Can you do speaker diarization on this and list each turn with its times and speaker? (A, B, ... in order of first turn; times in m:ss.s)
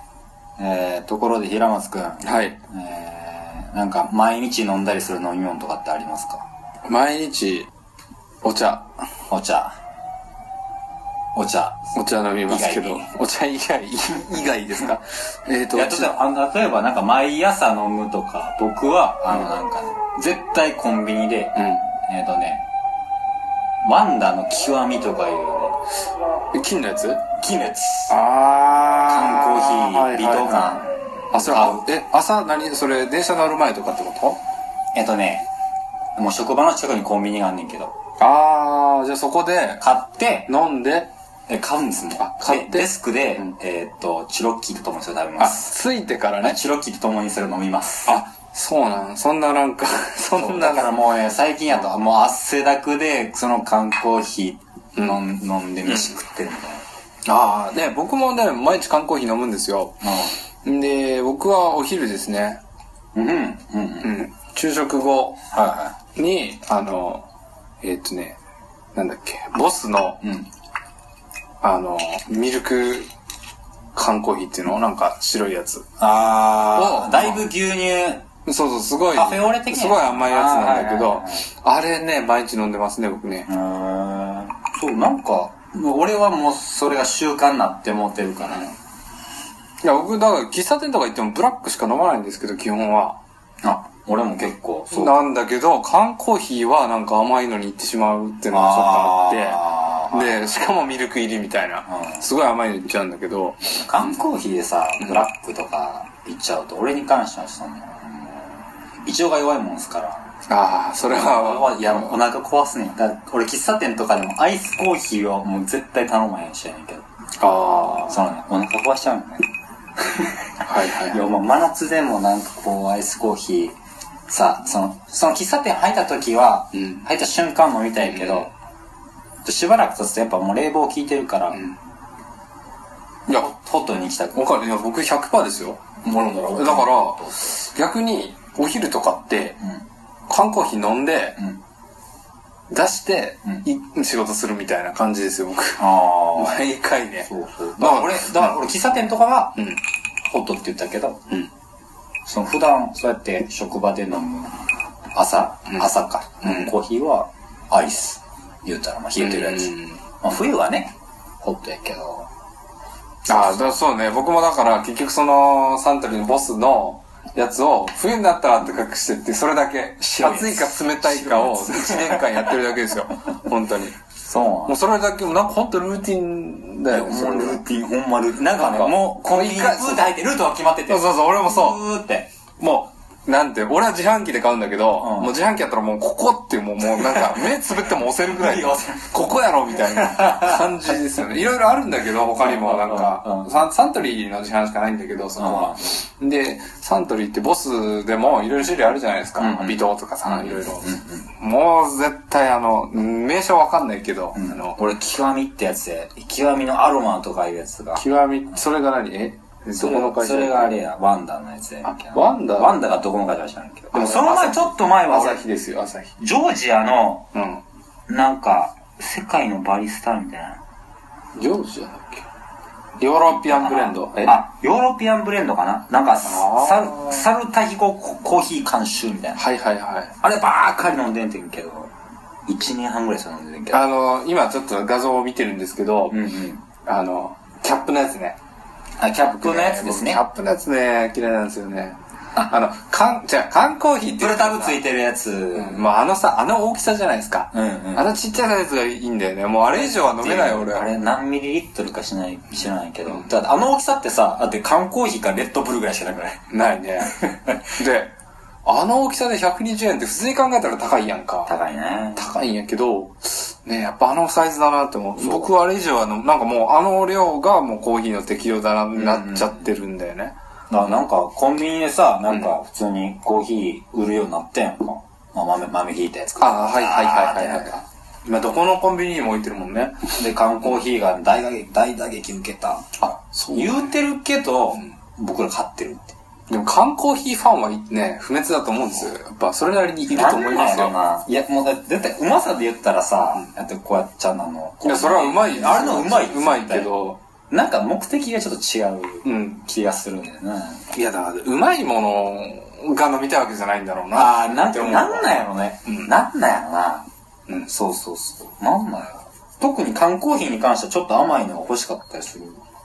0:00.6-0:06.4 A
0:02.2-0:02.6 B
0:06.8-0:07.7 B
0:08.4-0:09.0 B
0:09.3-0:09.8 A
0:11.3-0:11.8 A
0:11.9-0:16.2 B
0:12.5-0:13.1 A
0:15.7-0:22.6 A
0:21.6-0:21.8 B
0:23.8-0:25.8 A
0:26.5-0:27.2 B
0:27.4-0:28.2 A
0:28.1-0:34.4 B
0:29.1-0:31.8 A
0:34.9-0:35.5 A
0:36.2-0:37.9 A
0:38.2-0:39.8 B
0:39.8-0:40.5 A
0:40.5-0:41.1 B
0:41.5-0:45.7 A
0:42.2-0:42.9 B
0:45.4-0:46.6 B
0:46.4-0:48.2 A
0:48.0-0:51.0 B
0:50.3-0:56.8 A
0:57.2-1:00.1 B
1:00.0-1:00.3 A
1:00.6-1:02.6 B
1:03.1-1:04.2 A
1:04.0-1:05.4 B
1:05.5-1:06.0 A
1:06.2-1:07.2 B
1:07.8-1:08.4 B
1:08.9-1:10.2 B
1:10.2-1:10.5 A
1:11.6-1:13.1 B
1:13.9-1:15.9 B
1:16.0-1:18.2 A
1:16.7-1:17.5 B
1:18.4-1:23.5 B
1:19.1-1:21.4 A
1:23.5-1:28.7 A
1:29.8-1:33.2 B
1:33.6-1:35.2 A
1:34.9-1:43.8 B
1:38.5-1:40.5 A
1:43.8-1:48.5 A
1:49.0-1:50.2 A
1:50.5-1:52.2 B
1:51.1-1:57.0 A
1:57.4-1:58.2 B
1:57.9-1:59.5 A
2:00.0-2:03.8 A
2:00.6-2:01.2 B
2:04.3-2:08.5 A
2:08.2-2:08.4 B
2:09.4-2:11.7 A
2:13.3-2:14.5 A
2:14.3-2:19.6 B
2:16.0-2:17.5 A
2:20.3-2:21.4 B
2:22.7-2:28.6 B
2:25.8-2:26.7 A
2:27.2-2:29.6 A
2:30.3-2:31.2 A
2:32.2-2:34.5 A
2:35.1-2:42.3 A
2:36.4-2:36.7 B
2:39.2-2:40.0 B
2:43.3-2:54.0 B
2:50.1-2:52.6 A
2:54.2-2:54.8 A
2:54.6-2:57.6 B
2:56.9-3:02.3 A
2:58.4-3:00.1 B
3:00.9-3:01.8 B
3:02.6-3:24.8 B
3:05.0-3:05.3 A
3:07.0-3:07.6 A
3:08.2-3:09.2 A
3:09.9-3:10.6 A
3:12.4-3:13.5 A
3:15.4-3:16.0 A
3:19.4-3:21.3 A
3:24.3-3:28.0 A
3:28.0-3:30.8 B
3:29.8-3:35.4 A
3:31.8-3:32.8 B
3:33.9-3:36.1 B
3:36.2-3:37.3 A
3:37.3-3:37.6 B
3:38.1-3:40.6 A
3:41.3-3:42.2 B
3:43.0-3:44.4 B
3:43.3-3:49.4 A
3:46.2-3:47.2 B
3:49.4-3:50.1 B
3:50.2-3:51.9 A
3:52.5-3:53.8 A
3:53.7-3:56.2 B
3:56.1-3:56.6 A
3:56.8-3:58.4 B
3:59.0-4:00.2 A
3:59.4-4:04.8 B
4:04.1-4:05.9 A
4:05.5-4:10.9 B
4:07.5-4:08.2 A
4:09.7-4:16.4 A
4:16.5-4:18.1 B
4:17.0-4:17.6 A
4:18.6-4:21.5 B
4:21.4-4:22.3 A
4:22.2-4:30.3 B
4:25.2-4:25.5 A
4:29.0-4:29.5 A
4:30.7-4:37.8 A
4:36.4-4:40.1 B
4:40.2-4:46.1 A
4:43.1-4:43.9 B
4:46.5-4:51.4 B
4:50.0-4:56.9 A
4:54.8-4:57.2 B
4:57.5-5:00.9 A
4:59.2-4:59.6 B
5:00.9-5:05.4 B
5:04.1-5:07.1 A
5:07.6-5:12.6 A